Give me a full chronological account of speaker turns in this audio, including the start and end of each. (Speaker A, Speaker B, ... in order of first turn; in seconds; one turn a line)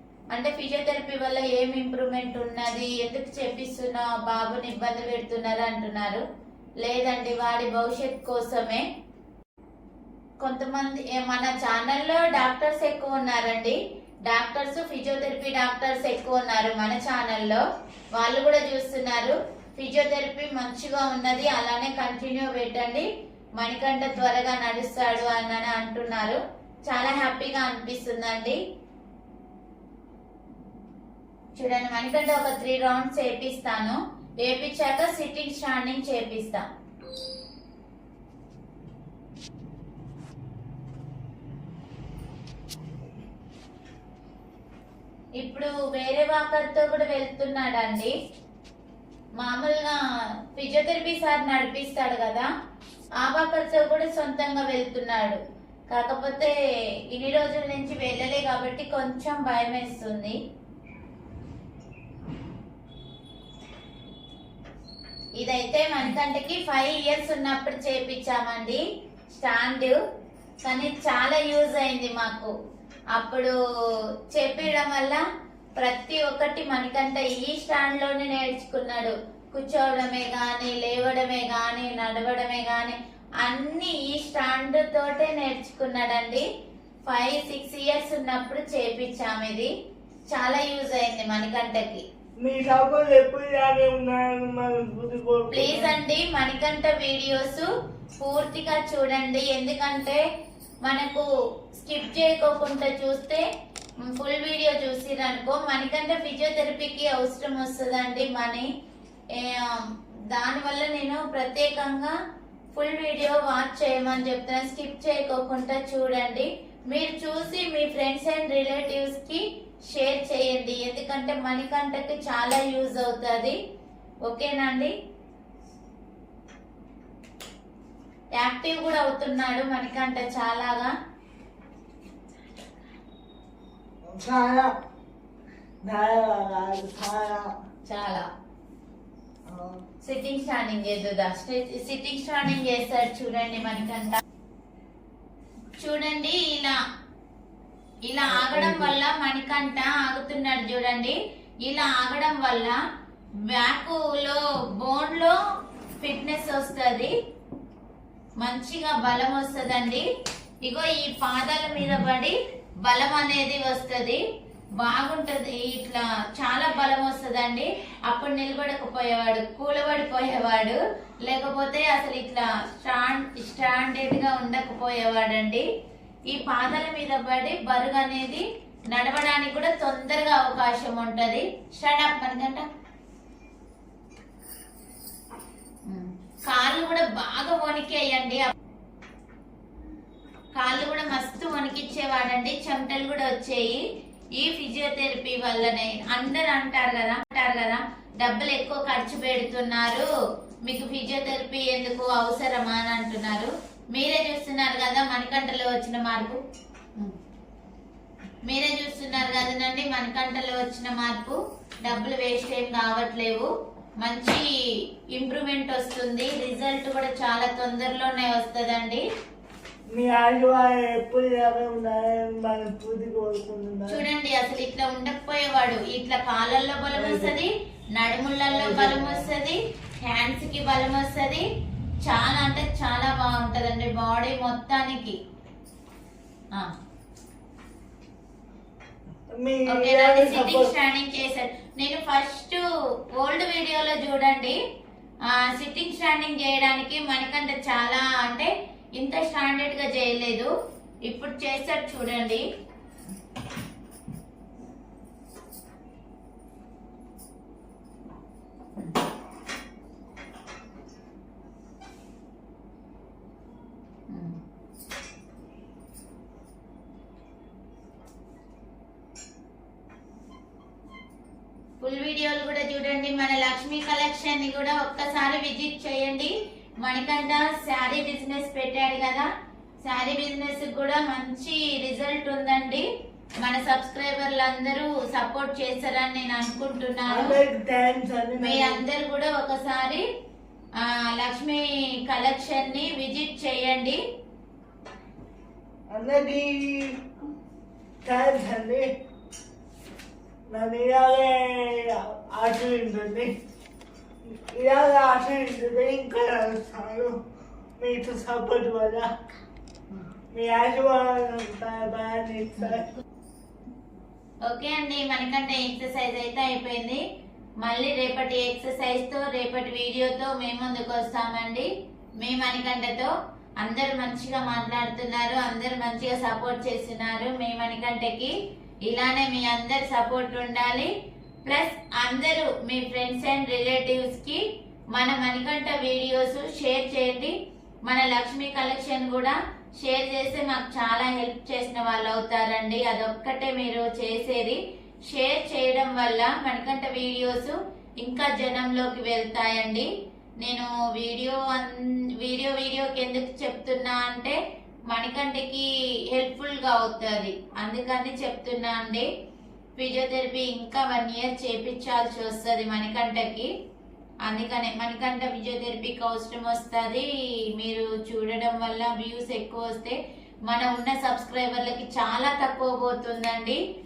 Speaker A: 0.3-6.2
Speaker A: 6.8-8.9
Speaker A: 10.4-28.6
Speaker A: 31.6-36.7
Speaker A: 45.4-48.1
Speaker A: 49.4-50.0
Speaker A: 50.5-52.5
Speaker A: 53.2-56.5
Speaker A: 57.1-60.4
Speaker A: 65.4-68.8
Speaker A: 69.4-70.0
Speaker A: 70.6-72.5
Speaker A: 73.1-73.5
Speaker A: 74.3-75.2
Speaker A: 75.8-86.5
Speaker A: 87.1-89.7
Speaker A: 90.3-92.0
Speaker B: 92.4-96.0
Speaker A: 95.5-100.2
Speaker A: 100.8-101.3
Speaker A: 101.8-103.4
Speaker A: 104.0-108.7
Speaker A: 109.3-112.2
Speaker A: 112.8-123.6
Speaker A: 124.3-124.9
Speaker A: 128.3-130.9
Speaker B: 134.1-134.7
Speaker B: 135.9-137.5
Speaker A: 137.9-138.3
Speaker B: 139.5-139.8
Speaker A: 140.0-144.2
Speaker A: 145.8-146.8
Speaker A: 148.1-152.8
Speaker B: 148.3-148.9
Speaker A: 153.5-155.4
Speaker A: 156.0-157.1
Speaker A: 158.4-160.1
Speaker A: 160.6-164.2
Speaker A: 164.8-175.7
Speaker A: 176.3-182.7
Speaker A: 185.9-188.5
Speaker A: 190.6-193.8
Speaker A: 194.4-200.1
Speaker A: 200.7-206.4
Speaker A: 208.4-214.5
Speaker A: 215.1-219.0
Speaker B: 219.9-224.1
Speaker A: 223.9-231.4
Speaker B: 226.9-227.4
Speaker B: 228.5-229.3
Speaker A: 232.1-235.2
Speaker B: 239.3-240.7
Speaker A: 239.7-242.6
Speaker A: 243.1-244.6
Speaker A: 245.2-250.5
Speaker A: 251.1-252.4
Speaker A: 264.1-264.4
Speaker A: 271.8-279.3
Speaker A: 279.8-282.9
Speaker A: 283.4-287.4
Speaker B: 287.1-288.8
Speaker A: 288.4-290.1
Speaker A: 290.8-294.0
Speaker B: 295.9-297.0
Speaker B: 298.0-298.9
Speaker B: 300.5-303.3
Speaker B: 304.3-307.1
Speaker B: 307.8-309.1
Speaker B: 310.3-312.9
Speaker A: 314.4-317.0
Speaker A: 317.6-321.7
Speaker A: 322.2-328.3
Speaker A: 328.9-330.9
Speaker A: 331.4-334.4
Speaker A: 334.9-337.3
Speaker A: 337.9-349.9
Speaker A: 350.4-354.4
Speaker A: 354.9-359.1
Speaker A: 359.8-363.5
Speaker A: 364.2-373.6